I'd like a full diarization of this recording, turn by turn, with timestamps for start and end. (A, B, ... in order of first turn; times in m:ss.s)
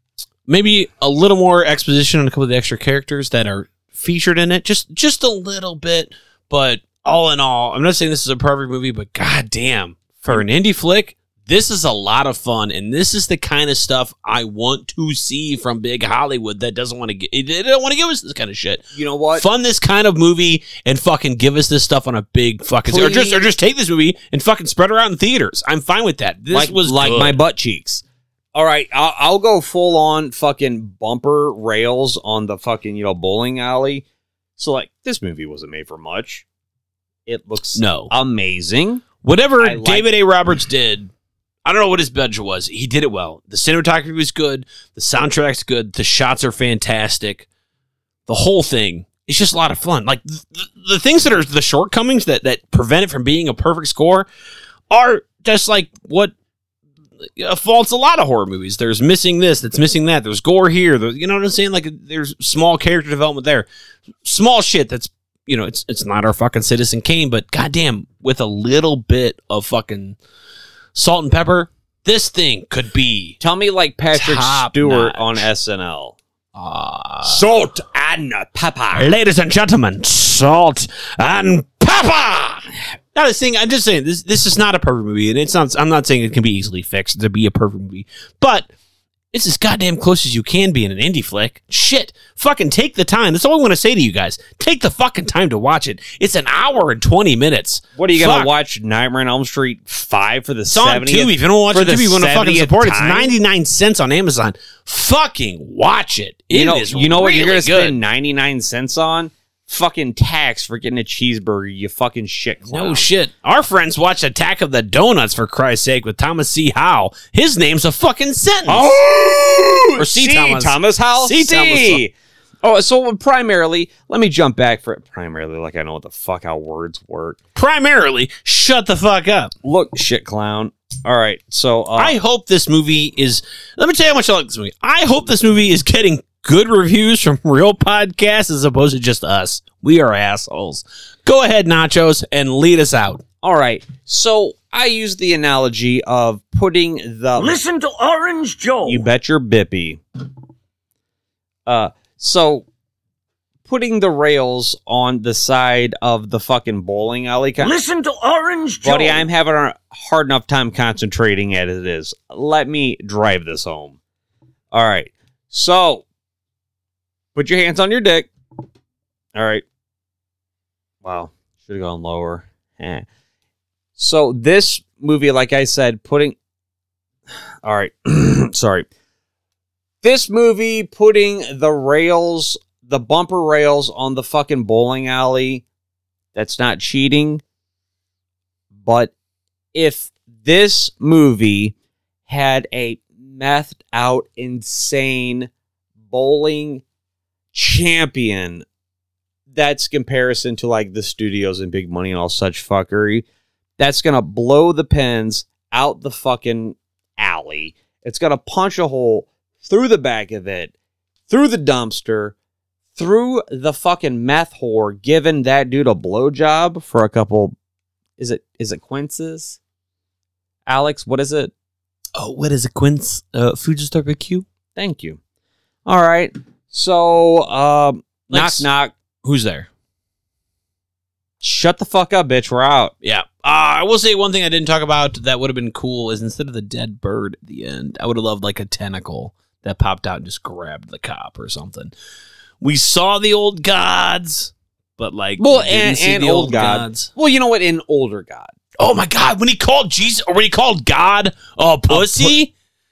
0:00.5-0:27.4 A
0:18.9-0:19.4 B
0:22.8-0:23.5 B
0:26.5-0:28.0 B
0:28.5-0:34.0 B
0:34.6-0:36.4 B
0:37.2-0:39.1 B
0:37.7-0:38.1 A
0:39.2-0:41.1 A
0:39.6-0:40.1 B
0:41.6-0:47.5 A
0:48.3-0:54.3 A
0:54.9-0:56.3 A
0:57.2-1:03.7 A
1:04.2-1:10.2 A
1:10.9-1:13.4 A
1:13.4-1:16.2 B
1:14.1-1:15.4 A
1:16.5-1:17.4 A
1:17.2-1:19.1 B
1:18.9-1:28.7 A
1:29.3-1:38.5 A
1:38.0-1:43.3 B
1:40.7-1:48.0 A
1:46.5-1:53.1 B
1:52.6-1:59.0 A
1:58.7-2:07.4 B
2:00.0-2:02.0 A
2:07.5-2:09.5 A
2:09.6-2:12.2 B
2:12.0-2:23.2 A
2:23.4-2:27.6 B
2:27.4-2:29.0 C
2:28.8-2:30.0 B
2:31.6-2:32.6 B
2:33.6-2:37.8 B
2:37.7-2:39.2 C
2:38.8-2:44.0 B
2:44.7-2:46.0 B
2:47.3-2:48.3 B
2:49.3-2:49.6 B
2:51.0-2:53.0 B
2:54.0-2:56.4 B
2:57.6-2:58.9 B
3:00.0-3:05.6 B
3:06.3-3:07.4 B
3:08.8-3:09.1 B
3:09.7-3:11.7 B
3:12.3-3:15.5 B
3:16.1-3:16.8 B
3:17.5-3:18.6 B
3:19.5-3:23.2 B
3:23.8-3:30.7 B
3:31.3-3:32.4 B
3:33.0-3:37.5 B
3:38.2-3:39.6 B
3:40.6-3:41.5 B
3:42.2-3:44.4 A
3:44.7-3:45.2 B
3:45.8-3:48.9 B
3:48.3-3:48.7 A
3:49.2-3:49.7 A
3:51.4-3:52.9 B
3:53.0-4:01.9 A
4:02.6-4:07.1 A
4:05.4-4:08.5 B
4:08.8-4:12.5 A
4:11.9-4:12.4 B